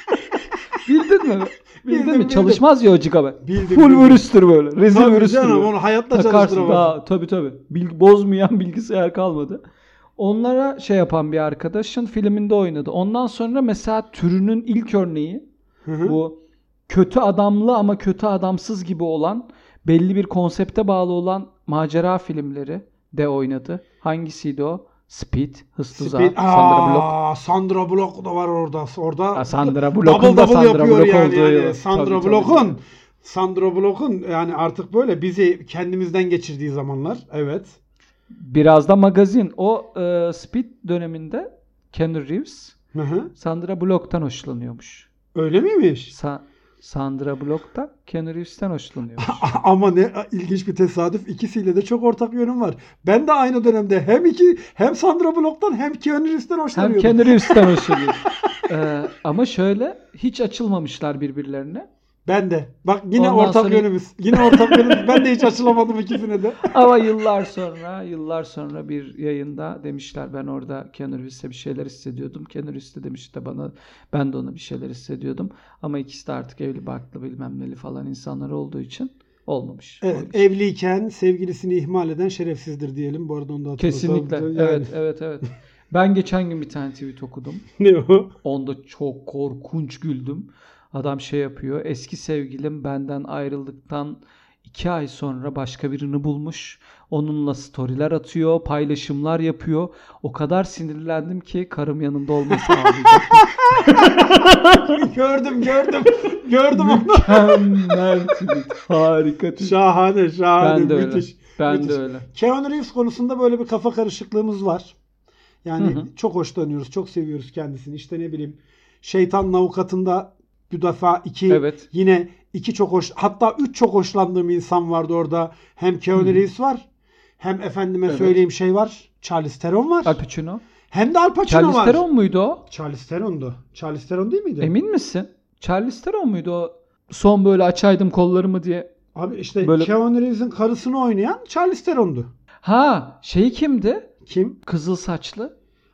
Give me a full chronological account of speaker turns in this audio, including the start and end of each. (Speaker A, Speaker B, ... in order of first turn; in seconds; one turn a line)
Speaker A: 0.8-9.6
Speaker B: 1.9-2.6
Speaker B: 3.4-4.2
Speaker B: 4.9-7.0
Speaker A: 10.2-15.4
Speaker B: 15.8-16.2
Speaker A: 16.0-27.1
Speaker B: 25.9-37.8
Speaker A: 29.3-32.8
Speaker A: 38.3-42.7
Speaker B: 42.9-43.3
Speaker A: 43.4-45.1
Speaker B: 45.3-46.1
Speaker A: 46.1-49.5
Speaker B: 49.2-58.3
Speaker A: 56.7-61.9
Speaker B: 62.2-66.7
Speaker A: 63.1-65.4
Speaker A: 66.6-80.5
Speaker B: 80.0-85.0
Speaker A: 83.8-87.6
Speaker B: 87.8-88.3
Speaker A: 88.4-105.0
Speaker B: 102.7-108.2
Speaker A: 106.7-109.8
Speaker B: 109.6-115.0
Speaker A: 110.6-112.2
Speaker B: 115.6-126.8
Speaker A: 115.8-116.1
Speaker A: 121.5-121.8
Speaker A: 126.1-126.4
Speaker B: 127.4-130.2
Speaker A: 128.1-128.4
Speaker A: 130.0-130.6
Speaker B: 130.9-132.0
Speaker A: 131.4-132.6
Speaker B: 132.7-134.7
Speaker A: 134.6-138.9
Speaker B: 139.1-142.3
Speaker A: 139.6-139.9
Speaker A: 142.6-144.1
Speaker B: 144.2-144.6
Speaker A: 144.6-145.5